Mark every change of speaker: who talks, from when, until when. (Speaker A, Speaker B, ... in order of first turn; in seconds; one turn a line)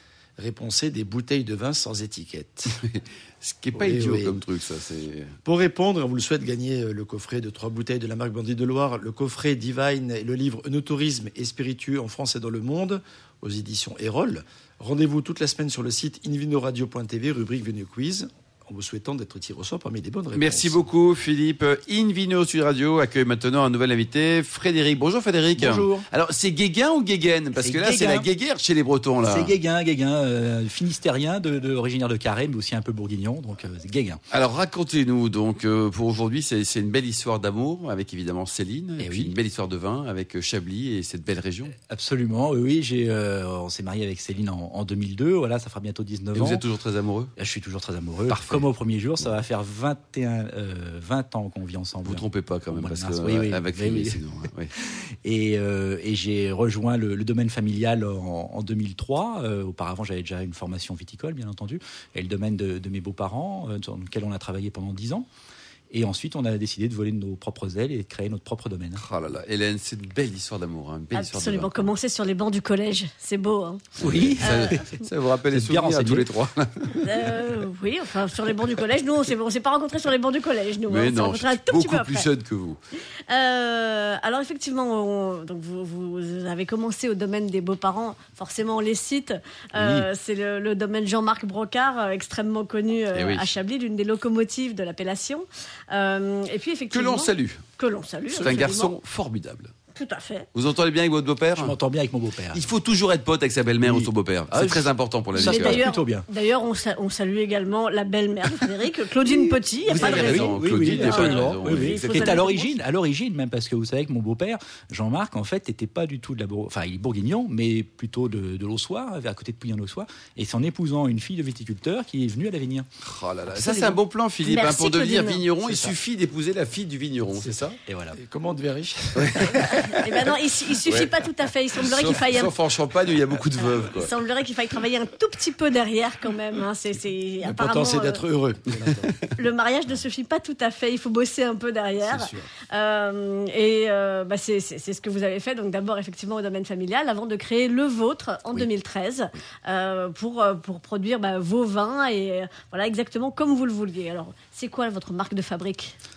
Speaker A: 0.4-2.8
Speaker B: 2.7-5.3
Speaker A: 3.7-4.4
Speaker A: 5.4-20.8
Speaker B: 20.3-29.5
Speaker C: 25.6-26.1
Speaker C: 27.6-28.3
Speaker C: 29.2-34.2
Speaker B: 34.3-41.7
Speaker C: 39.0-39.3
Speaker C: 41.7-46.6
Speaker B: 46.3-47.3
Speaker C: 47.4-54.2
Speaker B: 48.3-48.7
Speaker B: 52.0-54.7
Speaker C: 54.7-65.2
Speaker C: 65.9-69.0
Speaker B: 69.0-71.9
Speaker D: 71.1-74.8
Speaker C: 74.0-75.0
Speaker B: 74.0-77.1
Speaker C: 75.5-76.5
Speaker D: 77.0-82.3
Speaker B: 80.9-82.8
Speaker D: 83.3-98.9
Speaker B: 89.8-90.0
Speaker B: 93.1-93.5
Speaker B: 96.9-97.6
Speaker B: 98.4-99.7
Speaker D: 99.9-100.5
Speaker B: 100.5-101.8
Speaker C: 101.5-102.6
Speaker B: 102.5-105.8
Speaker C: 103.8-106.2
Speaker D: 105.4-112.7
Speaker C: 109.9-122.9
Speaker B: 109.9-112.4
Speaker B: 123.0-127.7
Speaker C: 123.5-123.9
Speaker D: 124.4-125.4
Speaker A: 125.6-125.9
Speaker A: 127.3-129.9
Speaker C: 127.9-128.2
Speaker B: 129.1-130.1
Speaker D: 129.6-132.5
Speaker B: 130.8-131.2
Speaker B: 131.7-134.2
Speaker D: 133.6-138.2
Speaker A: 137.4-139.2
Speaker D: 139.3-155.9
Speaker A: 142.0-142.5